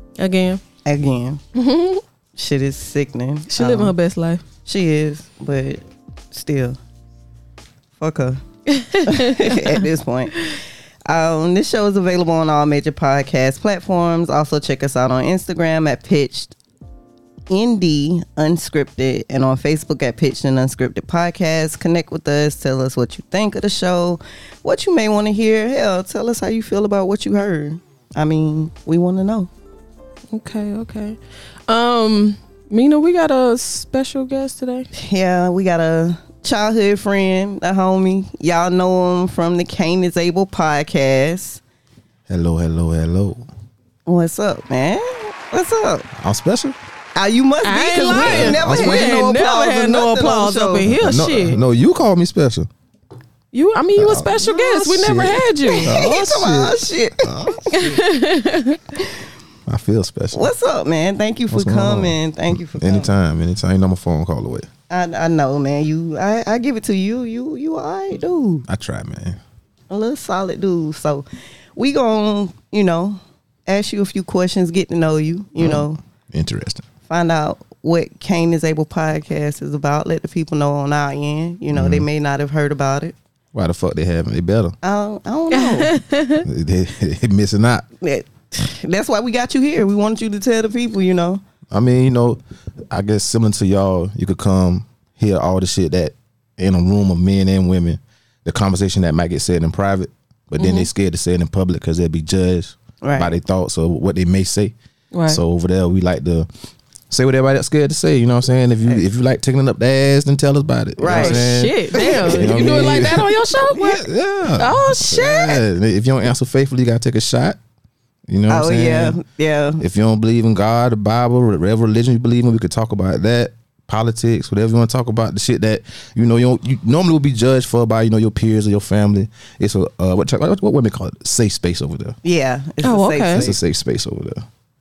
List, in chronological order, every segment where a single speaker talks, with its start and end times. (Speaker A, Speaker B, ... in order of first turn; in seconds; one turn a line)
Speaker A: 0.2-0.6
Speaker B: 0.8-1.4
Speaker A: 1.5-2.0
Speaker B: 2.4-3.9
Speaker A: 3.5-4.4
Speaker B: 4.7-6.8
Speaker B: 8.0-8.4
Speaker A: 8.7-9.8
Speaker B: 9.0-10.5
Speaker B: 11.1-16.5
Speaker B: 17.5-29.5
Speaker A: 30.3-34.9
Speaker B: 34.9-41.6
Speaker C: 42.3-43.5
Speaker B: 44.0-46.1
Speaker C: 46.1-46.7
Speaker B: 47.1-50.9
Speaker A: 47.6-51.6
Speaker C: 48.1-49.2
Speaker C: 50.8-52.7
Speaker A: 53.5-56.0
Speaker C: 54.0-57.5
Speaker B: 54.4-58.0
Speaker A: 57.7-58.8
Speaker C: 59.7-60.5
Speaker B: 60.3-63.1
Speaker C: 61.5-64.7
Speaker B: 64.9-68.6
Speaker C: 68.7-69.4
Speaker B: 69.9-71.2
Speaker B: 71.8-76.0
Speaker C: 75.6-76.8
Speaker B: 77.1-83.1
Speaker C: 81.7-82.0
Speaker C: 83.5-84.8
Speaker B: 84.8-85.9
Speaker A: 85.5-86.5
Speaker C: 86.4-87.8
Speaker B: 88.0-91.4
Speaker C: 91.7-104.7
Speaker A: 100.6-100.9
Speaker B: 103.0-103.3
Speaker A: 105.1-105.4
Speaker C: 105.3-106.5
Speaker C: 107.1-117.6
Speaker B: 111.0-112.9
Speaker A: 111.1-114.0
Speaker A: 114.5-115.6
Speaker C: 118.3-119.2
Speaker B: 118.5-119.8
Speaker C: 119.8-132.2
Speaker B: 132.2-133.6
Speaker A: 132.8-133.4
Speaker C: 133.3-134.4